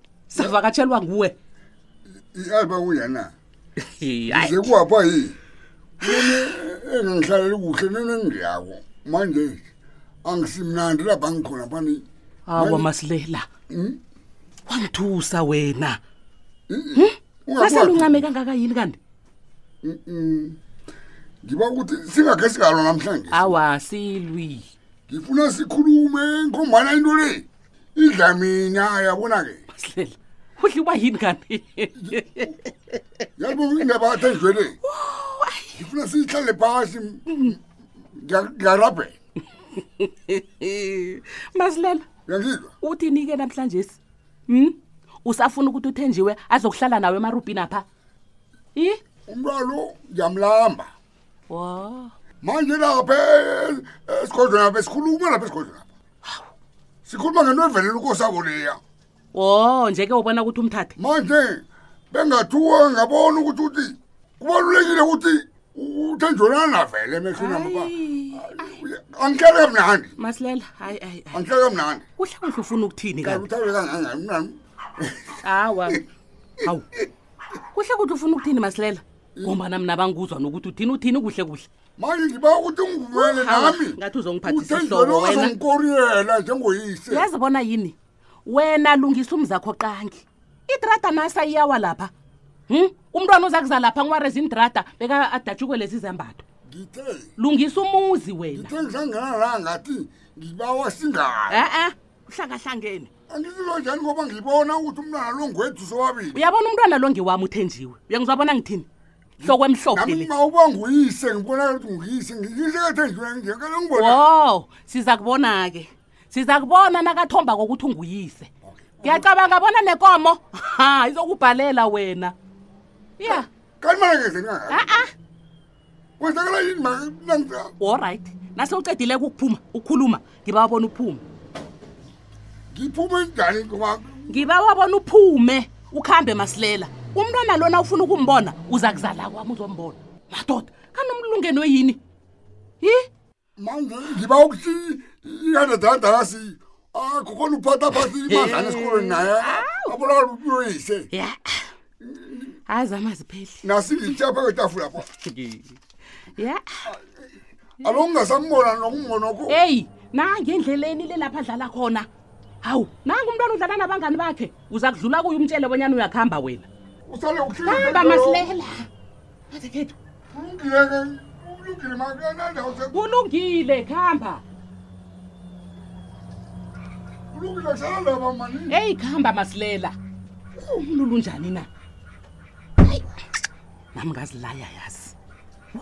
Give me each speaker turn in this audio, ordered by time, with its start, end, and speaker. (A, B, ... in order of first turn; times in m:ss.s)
0:00.3-0:01.3 A
0:02.3-0:03.3 B
0:04.0-0:04.7 A
0:04.3-0:05.3 B
0:06.0-0:09.6 B
0:10.2-0:12.0 B
0:12.5-0:13.4 A
0:12.6-0:12.9 B
0:13.7-0:14.0 B
0:14.7-0:16.0 A
0:16.7-0:18.2 B
0:17.0-0:19.0 A
0:19.8-0:20.6 B
0:21.4-0:23.6 B
0:23.3-0:24.6 A
0:25.1-0:29.6 B
0:29.7-0:32.5 A
0:33.4-0:34.7 B
0:34.8-0:35.7 A
0:35.8-0:37.5 B
0:38.2-0:39.1 B
0:40.0-0:42.0 A
0:42.3-0:42.7 B
0:42.8-0:44.0 A
0:44.5-0:47.8 A
0:49.3-0:50.9 B
0:51.5-0:52.1 A
0:52.4-0:55.8 B
0:57.0-0:58.8 B
0:59.3-1:00.9 A
1:01.0-1:10.1 B
1:07.4-1:08.4 A
1:10.2-1:11.4 A
1:11.3-1:12.0 B
1:12.2-1:13.4 A
1:13.2-1:15.1 B
1:15.4-1:16.0 A
1:17.7-1:21.7 A
1:22.0-1:27.3 B
1:23.1-1:25.6 A
1:27.1-1:27.9 A
1:28.4-1:32.1 A
1:32.7-1:36.4 A
1:36.7-1:37.3 B
1:37.4-1:38.7 A
1:38.5-1:41.7 B
1:41.5-1:43.1 A
1:43.3-1:46.5 B
1:46.3-1:48.8 A
1:49.4-1:54.2 B
1:49.4-1:50.3 A
1:54.0-1:58.5 A
1:58.7-1:59.3 B
1:59.0-2:02.3 A
2:03.2-2:03.5 A
2:03.2-2:05.1 B
2:04.7-2:05.1 A
2:06.2-2:07.7 B
2:07.8-2:11.2 A
2:12.7-2:14.4 B
2:14.3-2:22.0 A
2:22.8-2:23.1 A
2:23.6-2:31.1 B
2:28.0-2:29.9 A
2:31.1-2:31.6 A
2:32.0-2:32.5 B
2:32.7-2:33.6 A
2:33.6-2:35.0 B
2:35.2-2:35.6 A
2:36.4-2:36.6 A
2:37.8-2:39.6 B
2:39.5-2:42.1 A
2:42.6-2:46.7 A
2:47.1-2:48.5 B
2:47.6-2:48.8 A
2:49.5-2:49.9 A
2:50.3-2:53.0 B
2:52.9-2:54.4 A
2:57.3-2:58.8 B
2:58.7-2:59.9 A
3:00.7-3:01.7 A
3:03.9-3:05.1 A